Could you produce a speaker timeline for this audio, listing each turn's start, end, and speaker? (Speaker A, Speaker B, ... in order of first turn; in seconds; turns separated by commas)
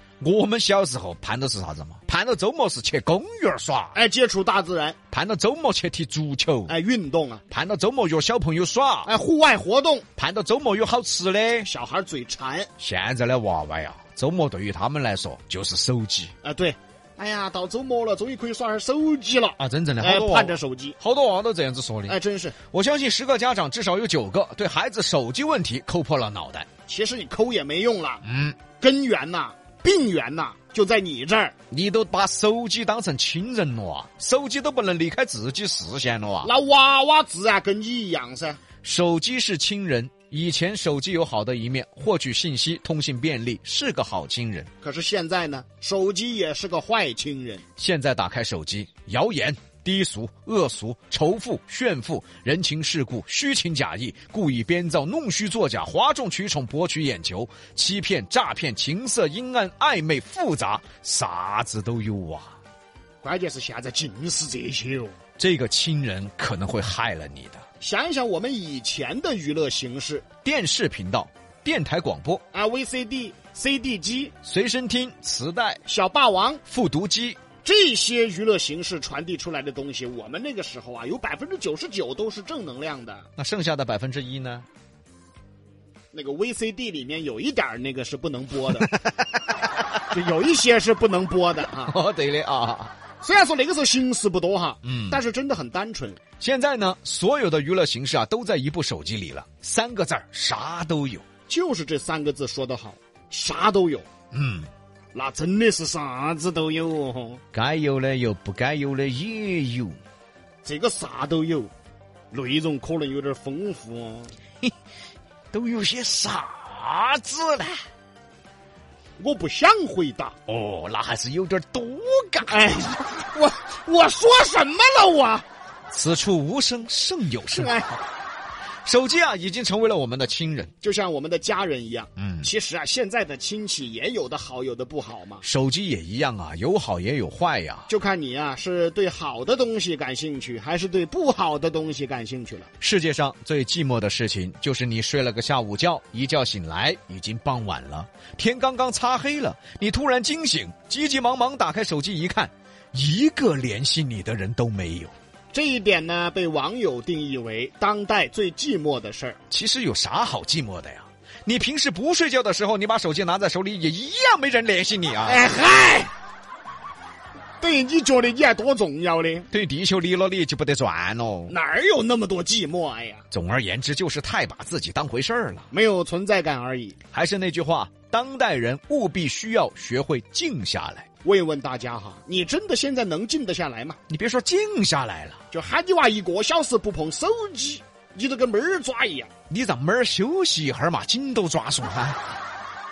Speaker A: 0.2-4.0, Speaker B: 3.9-5.0, Speaker A: 5.1-6.7, Speaker B: 6.7-7.4, Speaker A: 7.5-9.1, Speaker B: 9.0-10.0, Speaker A: 10.2-11.7, Speaker B: 11.6-12.7, Speaker A: 12.8-16.3, Speaker B: 16.4-20.9, Speaker A: 19.6-22.1, Speaker B: 22.1-22.6, Speaker A: 22.7-26.7, Speaker B: 26.9-28.2, Speaker A: 28.2-28.6, Speaker B: 28.8-31.5, Speaker A: 31.7-36.5, Speaker B: 36.4-38.6, Speaker A: 38.8-44.7, Speaker B: 44.8-47.6, Speaker A: 47.8-62.5, Speaker B: 63.2-65.1, Speaker A: 65.4-67.6, Speaker B: 67.8-70.2, Speaker A: 70.4-72.4, Speaker B: 72.5-74.3, Speaker A: 74.4-75.8, Speaker B: 75.8-76.6, Speaker A: 76.7-77.4, Speaker B: 77.6-83.3, Speaker A: 83.4-84.7, Speaker B: 86.1-88.9, Speaker B: 90.1-92.0, Speaker A: 91.7-92.9, Speaker B: 93.2-96.2, Speaker A: 94.8-95.2, Speaker A: 96.4-101.2, Speaker B: 101.5-104.0, Speaker A: 104.3-104.7, Speaker B: 105.1-107.4, Speaker A: 107.5-110.0, Speaker B: 110.6-111.7, Speaker B: 112.3-114.3, Speaker A: 115.5-117.9, Speaker B: 119.2-120.3, Speaker A: 120.5-122.8, Speaker B: 122.5-125.4, Speaker A: 125.9-127.7, Speaker B: 127.5-128.0, Speaker A: 128.8-130.7, Speaker B: 130.8-135.4, Speaker A: 132.2-132.5, Speaker A: 135.4-137.9, Speaker B: 137.9-142.7, Speaker A: 142.8-155.1, Speaker B: 155.5-159.4, Speaker A: 159.5-165.5, Speaker B: 165.2-166.1, Speaker B: 167.6-169.5, Speaker A: 169.5-171.5, Speaker B: 171.5-173.2, Speaker A: 173.3-175.7, Speaker B: 175.7-176.9, Speaker A: 177.1-181.1, Speaker B: 181.2-184.0, Speaker A: 184.1-185.4, Speaker B: 185.5-189.3, Speaker A: 189.5-192.3